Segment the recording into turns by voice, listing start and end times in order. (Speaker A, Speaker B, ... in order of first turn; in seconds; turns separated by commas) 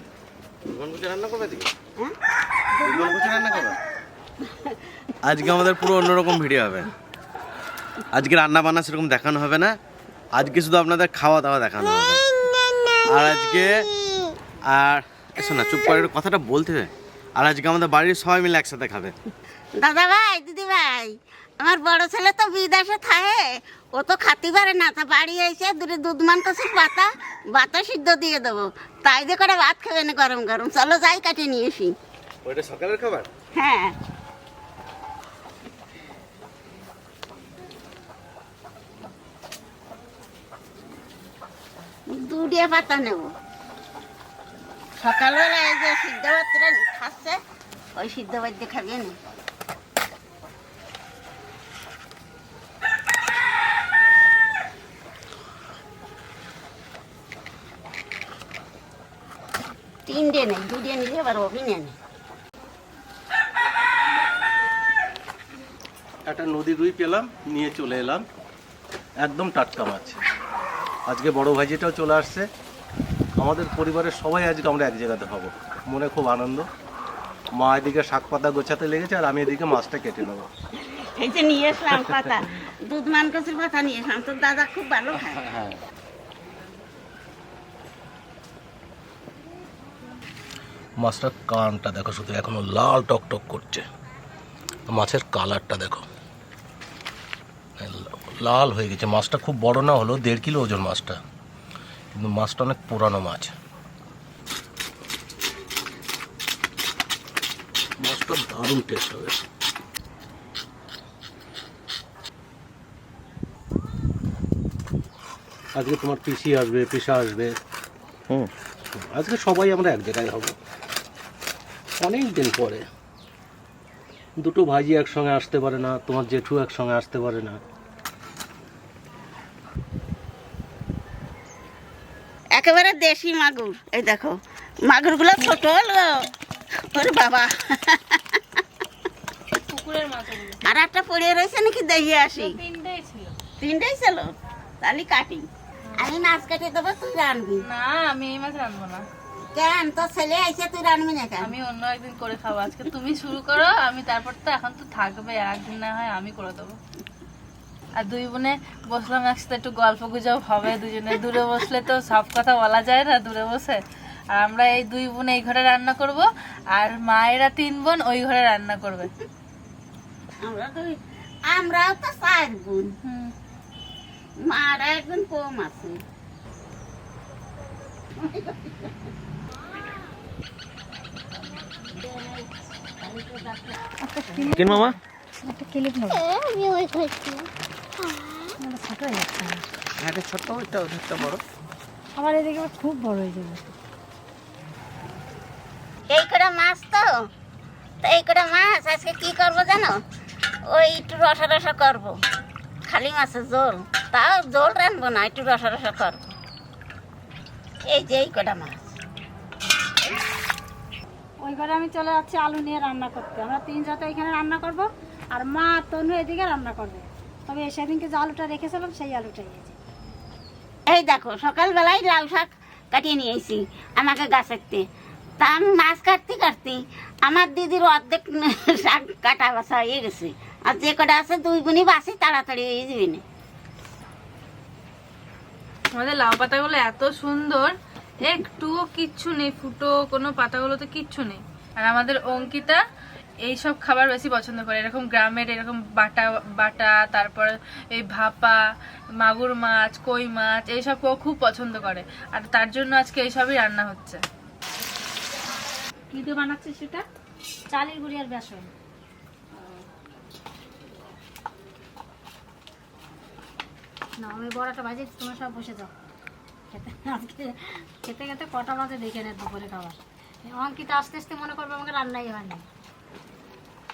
Speaker A: 0.7-1.7, Speaker B: 2.8-3.7, Speaker A: 2.8-3.8, Speaker A: 5.2-6.9, Speaker A: 8.1-9.7, Speaker A: 10.3-12.2, Speaker A: 13.1-13.9, Speaker A: 14.7-19.1, Speaker B: 19.8-31.9, Speaker A: 32.5-33.3, Speaker B: 33.6-33.9, Speaker B: 42.1-43.3, Speaker B: 45.0-47.4, Speaker B: 48.0-49.2, Speaker B: 60.1-61.9, Speaker C: 66.3-68.2, Speaker C: 69.2-70.2, Speaker C: 71.1-72.5, Speaker C: 73.4-76.7, Speaker C: 77.6-80.5, Speaker B: 80.9-85.7, Speaker C: 91.0-93.9, Speaker C: 94.9-96.1, Speaker C: 97.8-101.2, Speaker C: 102.1-103.5, Speaker C: 108.0-109.5, Speaker C: 115.8-117.6, Speaker C: 118.9-120.5, Speaker C: 122.0-122.9, Speaker C: 124.4-127.6, Speaker B: 132.6-136.1, Speaker B: 136.9-138.4, Speaker D: 139.7-140.6, Speaker B: 140.6-142.6, Speaker D: 142.3-143.4, Speaker B: 143.6-145.5, Speaker B: 146.0-147.6, Speaker D: 147.6-149.0, Speaker B: 149.6-151.5, Speaker D: 151.4-156.8, Speaker D: 158.0-163.8, Speaker D: 164.3-169.1, Speaker B: 170.4-172.9, Speaker D: 173.0-173.3, Speaker B: 174.4-176.0, Speaker B: 178.2-178.9, Speaker E: 183.9-186.2, Speaker B: 186.1-187.5, Speaker E: 188.6-189.6, Speaker E: 192.2-193.7, Speaker B: 196.1-197.1, Speaker B: 198.0-200.0, Speaker B: 200.7-202.2, Speaker B: 202.9-206.3, Speaker B: 207.9-208.9, Speaker E: 211.4-219.8, Speaker B: 220.9-224.8, Speaker B: 225.4-233.2, Speaker D: 235.9-237.7, Speaker D: 238.3-242.8, Speaker D: 243.5-248.6, Speaker D: 249.2-254.2, Speaker E: 257.7-258.7, Speaker E: 264.2-265.9, Speaker E: 266.7-272.6